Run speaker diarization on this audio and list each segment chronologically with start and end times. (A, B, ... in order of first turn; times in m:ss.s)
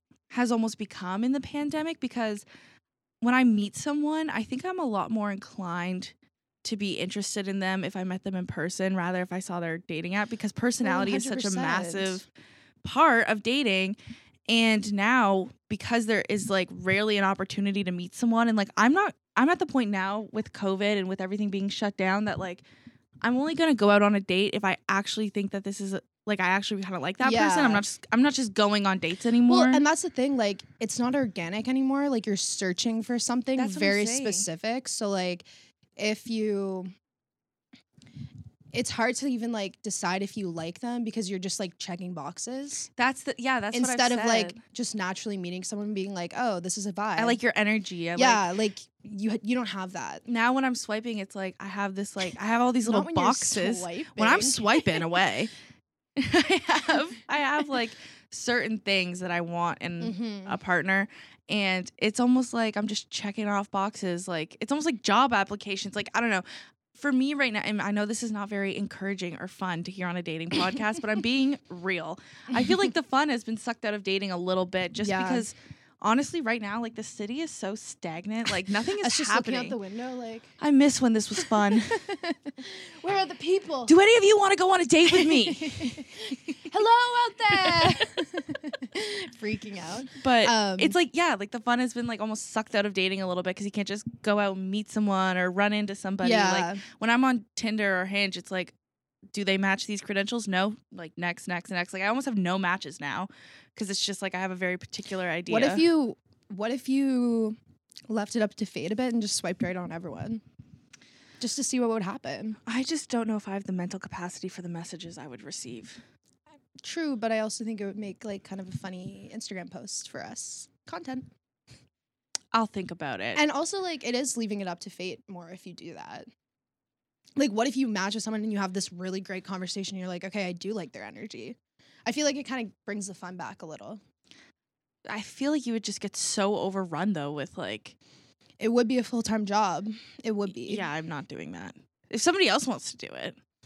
0:00.3-0:02.4 A
0:03.2-0:12.2 A
0:10.8-0:12.2 B
0:12.8-0:22.6 A
0:23.2-0:29.8 A
0:27.2-0:27.8 B
0:29.5-0:35.4 B
0:33.6-0:34.5 A
0:36.0-0:36.9 B
0:38.7-0:42.9 B
0:43.0-0:44.6 A
0:43.7-0:47.4 B
0:47.2-0:48.4 A
0:48.2-0:50.2 B
0:50.2-0:55.5 A
0:52.8-0:55.0 B
0:56.2-1:19.8 A
1:00.0-1:00.6 B
1:12.5-1:12.9 B
1:15.0-1:15.5 B
1:19.0-1:20.5 B
1:20.6-1:22.0 A
1:21.4-1:23.9 B
1:23.9-1:26.0 A
1:25.1-1:31.0 B
1:27.5-1:28.1 A
1:30.2-1:38.7 A
1:36.2-1:36.8 B
1:39.3-1:45.8 A
1:45.5-1:47.6 B
1:48.1-1:50.4 B
1:51.4-1:52.6 B
1:52.6-1:56.0 A
1:56.8-2:01.3 B
2:02.5-2:03.4 A
2:03.3-2:06.3 B
2:07.4-2:11.6 B
2:12.1-2:14.0 B
2:15.1-2:18.0 A
2:18.6-2:20.8 B
2:20.6-2:23.4 A